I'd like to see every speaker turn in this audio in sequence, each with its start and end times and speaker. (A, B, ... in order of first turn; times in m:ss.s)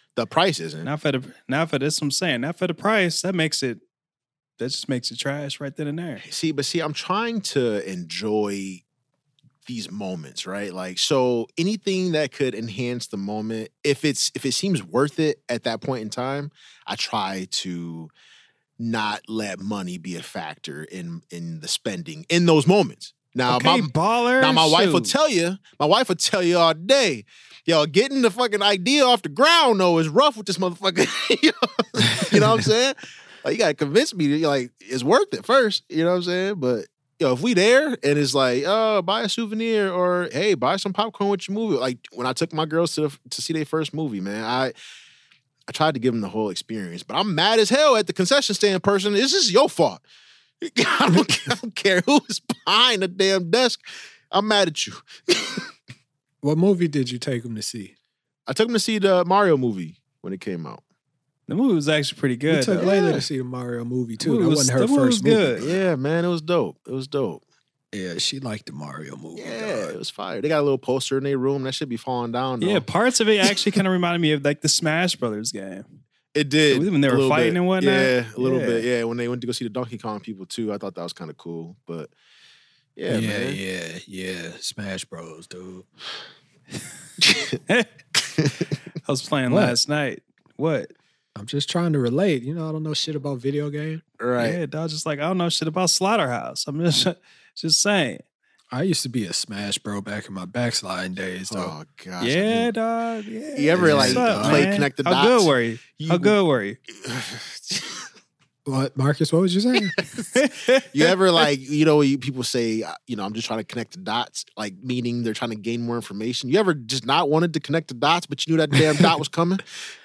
0:00.2-0:00.9 A
0:00.8-0:03.8 B
0:04.6-0:06.2 B
0:06.2-0:08.8 A
0:09.6-0:18.1 A
0:18.8-0:44.7 A
0:23.5-0:25.1 B
0:45.7-0:50.0 A
0:50.6-0:55.7 A
0:56.4-0:57.9 C
0:58.5-1:00.8 A
1:01.5-1:03.2 B
1:02.5-1:05.9 C
1:02.8-1:03.1 A
1:04.2-1:05.7 B
1:05.6-1:07.4 A
1:07.9-1:10.0 C
1:09.3-1:12.8 A
1:12.6-1:15.9 B
1:16.3-1:22.1 A
1:16.7-1:18.9 B
1:23.0-1:23.6 A
1:23.1-1:25.9 C
1:27.2-1:27.6 A
1:29.0-1:30.9 B
1:29.5-1:29.8 C
1:31.3-1:34.0 C
1:34.2-1:34.6 A
1:34.4-1:38.2 B
1:38.7-1:41.7 C
1:41.5-1:42.7 A
1:42.2-1:46.8 B
1:43.5-1:46.4 A
1:43.8-1:44.7 C
1:46.9-1:48.0 A
1:48.6-1:49.9 C
1:50.0-1:50.2 A
1:50.3-1:50.8 B
1:50.9-1:59.6 A